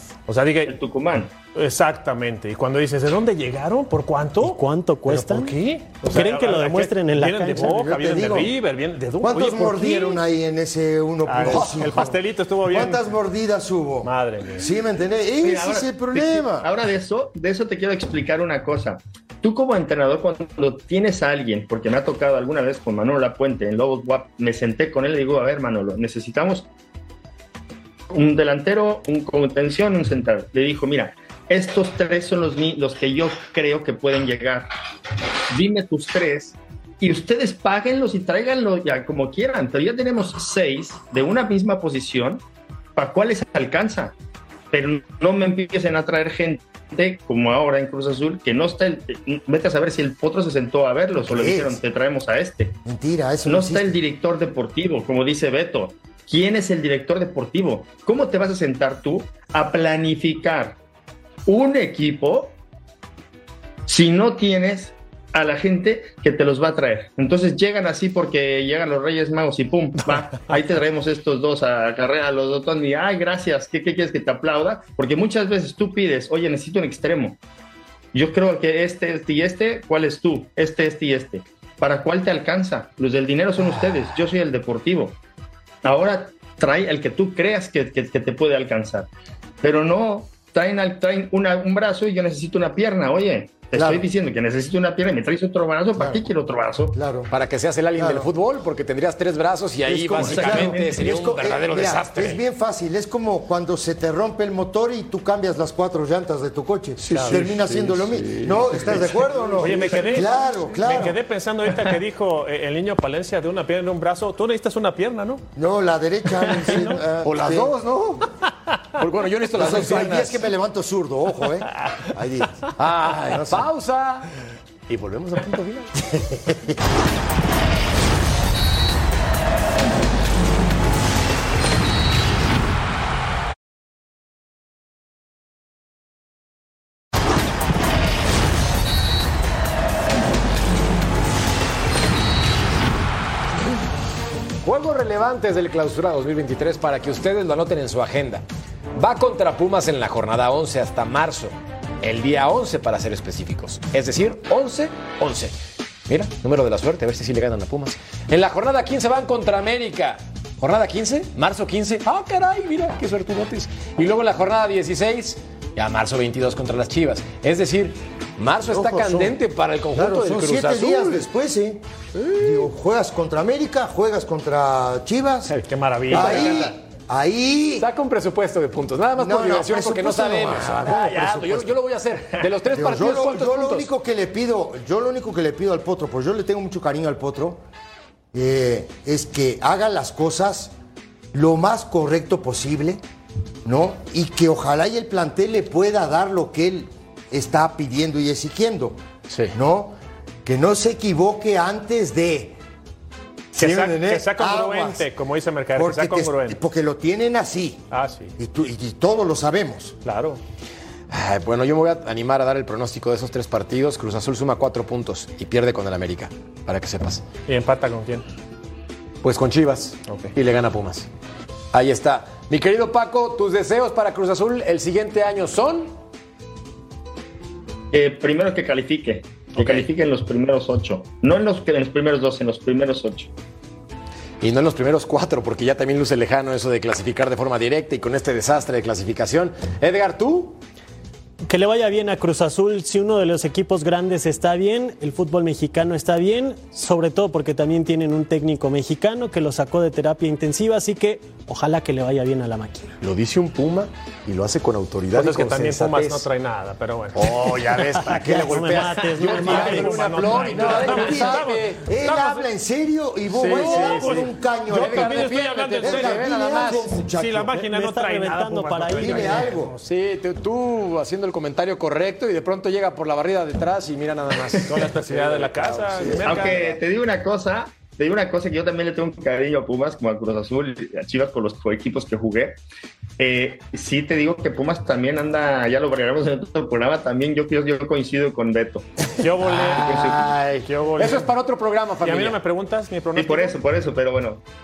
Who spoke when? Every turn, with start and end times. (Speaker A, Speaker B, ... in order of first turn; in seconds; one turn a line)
Speaker A: 0.3-0.8
Speaker B: 0.7-1.3
Speaker A: 1.5-10.2
Speaker C: 4.4-5.5
Speaker C: 6.1-7.8
Speaker D: 7.5-8.5
Speaker D: 9.2-12.2
Speaker A: 11.3-13.1
Speaker D: 12.7-16.7
Speaker A: 14.0-14.7
Speaker B: 15.4-26.7
Speaker B: 28.1-34.7
Speaker B: 35.5-42.4
Speaker B: 43.0-44.1
Speaker B: 44.7-52.8
Speaker D: 51.2-51.8
Speaker D: 52.9-54.0
Speaker B: 53.5-60.8
Speaker B: 61.5-62.6
Speaker B: 63.9-77.4
Speaker B: 78.1-85.2
Speaker B: 85.8-89.1
Speaker B: 89.6-97.0
Speaker D: 93.7-94.1
Speaker D: 96.0-96.2
Speaker D: 96.9-97.3
Speaker E: 97.3-102.4
Speaker D: 98.0-98.3
Speaker D: 99.9-111.2
Speaker B: 100.2-101.4
Speaker E: 107.0-110.2
Speaker A: 109.6-115.4
Speaker D: 115.6-117.8
Speaker A: 116.5-117.0
Speaker E: 117.2-118.3
Speaker E: 119.0-120.5
Speaker D: 119.5-122.6
Speaker E: 122.8-124.3
Speaker D: 123.3-123.7
Speaker E: 124.9-125.9
Speaker D: 126.1-126.8
Speaker E: 144.6-148.4
Speaker E: 149.0-155.5
Speaker E: 156.1-171.2
Speaker D: 168.7-169.4
Speaker D: 169.9-171.8
Speaker E: 172.2-172.7
Speaker D: 172.4-175.6
Speaker E: 175.5-176.7
Speaker A: 175.7-176.6
Speaker D: 176.1-177.9
Speaker E: 177.8-183.9
Speaker D: 179.2-181.8
Speaker D: 182.7-187.6
Speaker D: 188.3-190.7
Speaker D: 191.3-193.0
Speaker D: 193.7-199.0
Speaker E: 199.3-199.6
Speaker D: 199.5-199.9
Speaker D: 200.4-202.6
Speaker D: 203.5-205.1
Speaker A: 203.5-206.6
Speaker D: 205.8-207.8
Speaker A: 207.9-208.3
Speaker D: 208.4-209.9
Speaker A: 210.1-210.4
Speaker E: 211.1-217.2
Speaker A: 217.5-218.2
Speaker E: 219.2-221.1
Speaker A: 220.1-220.3
Speaker E: 221.7-225.9
Speaker B: 227.9-233.3
Speaker E: 229.6-229.9
Speaker E: 234.4-240.6
Speaker C: 241.5-252.9
Speaker E: 253.0-256.3
Speaker A: 255.2-257.5
Speaker E: 257.1-261.9
Speaker C: 257.8-260.3
Speaker A: 259.2-262.5
Speaker D: 259.5-267.5
Speaker E: 263.3-266.9
Speaker A: 263.4-269.8
Speaker C: 267.5-269.5
Speaker D: 269.0-269.7
Speaker E: 269.7-276.8
Speaker A: 274.7-276.7
Speaker B: 276.2-282.6
Speaker B: 283.2-288.9
Speaker A: 289.2-291.3
Speaker E: 289.4-292.4
Speaker A: 292.0-293.6
Speaker B: 293.2-294.4